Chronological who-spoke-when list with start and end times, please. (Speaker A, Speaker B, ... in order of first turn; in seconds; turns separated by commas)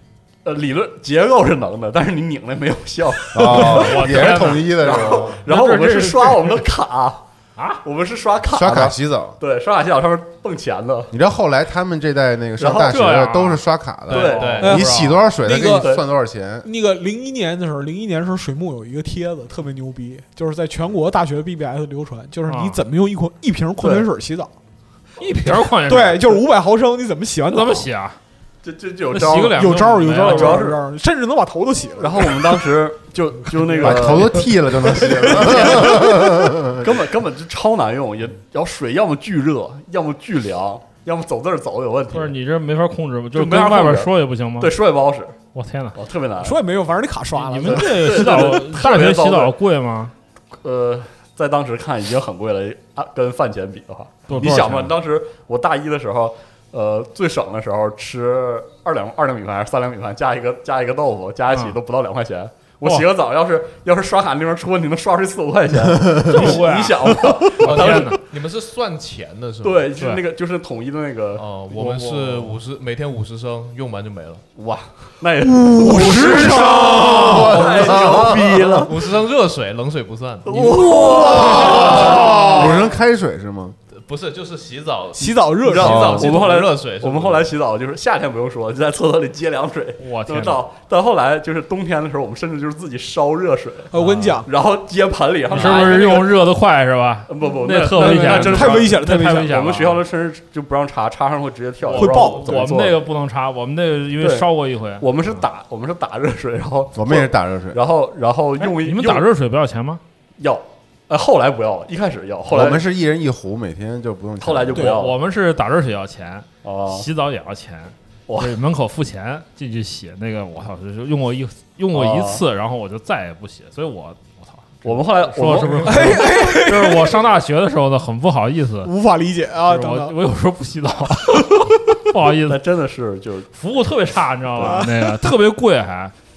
Speaker A: 0.4-7.2, Speaker B: 3.3-5.4, Speaker C: 3.5-6.6, Speaker C: 7.6-7.8, Speaker A: 7.8-11.1, Speaker B: 8.5-9.4, Speaker B: 11.1-16.7, Speaker A: 12.6-13.0, Speaker C: 12.8-13.6, Speaker D: 14.1-14.8, Speaker A: 14.1-14.7, Speaker E: 14.6-15.9, Speaker C: 14.6-15.3, Speaker A: 15.7-16.1, Speaker E: 16.6-24.5, Speaker C: 22.5-22.8, Speaker A: 23.8-24.1, Speaker C: 25.2-26.4, Speaker E: 25.9-27.9, Speaker C: 27.5-28.2, Speaker A: 28.6-30.8, Speaker C: 29.1-30.7, Speaker E: 29.5-32.5, Speaker A: 32.0-34.5, Speaker E: 33.6-34.2, Speaker B: 33.8-37.0, Speaker E: 34.9-36.4, Speaker A: 35.0-36.0, Speaker A: 36.7-42.4, Speaker C: 42.1-44.8, Speaker A: 43.3-45.4, Speaker C: 45.5-46.0, Speaker A: 46.0-46.6, Speaker E: 46.4-48.5, Speaker C: 47.3-50.1, Speaker A: 47.6-49.5, Speaker A: 50.6-68.2, Speaker C: 54.3-55.0, Speaker C: 61.5-61.8, Speaker C: 66.2-68.2, Speaker D: 67.6-69.9, Speaker A: 69.6-72.5, Speaker C: 70.0-70.2, Speaker D: 71.4-74.5, Speaker A: 74.6-79.1, Speaker E: 75.4-77.7, Speaker D: 76.1-82.5, Speaker B: 76.5-78.8, Speaker A: 80.5-82.8, Speaker E: 80.7-82.5, Speaker B: 81.2-83.8, Speaker D: 83.9-87.5, Speaker E: 85.2-86.3, Speaker A: 85.7-96.4, Speaker B: 85.8-86.3, Speaker C: 90.0-90.6, Speaker E: 93.9-94.5, Speaker C: 95.5-100.0, Speaker A: 97.3-103.0, Speaker E: 97.9-99.6, Speaker C: 101.8-105.5, Speaker E: 102.0-102.7, Speaker A: 104.2-109.3, Speaker B: 106.9-107.8, Speaker C: 108.6-110.0, Speaker A: 110.4-112.8, Speaker B: 112.5-115.0, Speaker A: 114.4-115.2, Speaker C: 115.0-128.9, Speaker A: 116.6-117.1, Speaker A: 118.3-118.6, Speaker A: 121.9-122.4, Speaker A: 124.8-126.2, Speaker E: 125.8-127.2, Speaker E: 128.8-130.2, Speaker C: 129.7-132.6, Speaker A: 132.5-133.5, Speaker C: 133.5-136.1, Speaker A: 134.5-134.8, Speaker E: 134.6-135.1